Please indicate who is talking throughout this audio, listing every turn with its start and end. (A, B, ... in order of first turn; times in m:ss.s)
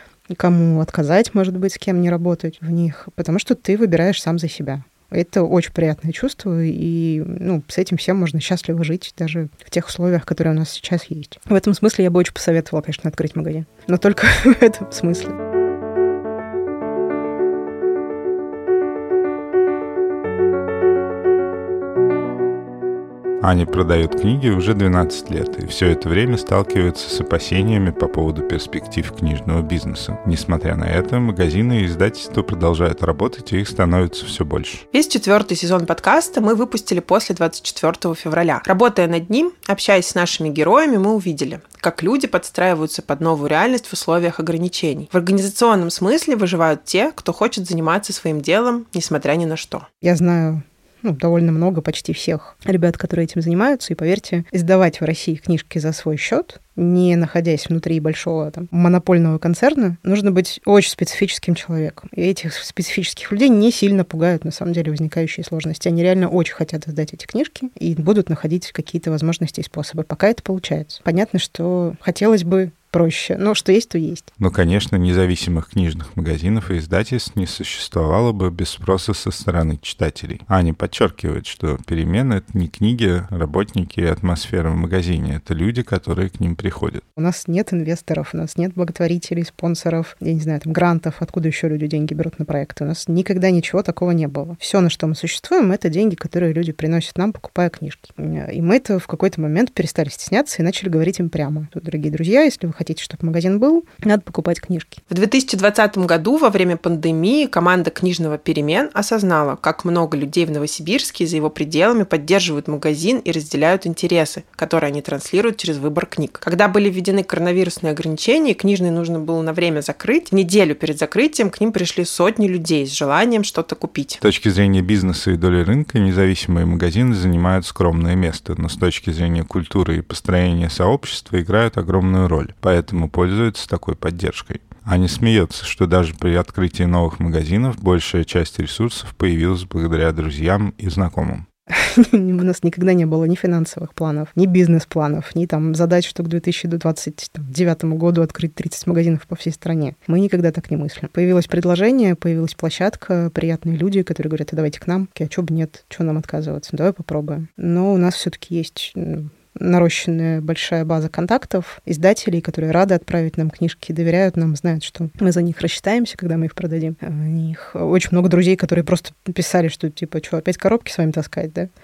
0:00.3-0:15.4 A
0:23.4-0:34.8 B
0:34.9-0:49.9 C
0:50.0-1:14.3 A
1:14.4-1:27.0 B
1:27.2-1:45.0 A
1:45.1-2:04.2 C
2:04.2-2:21.5 B
2:21.7-2:51.7 A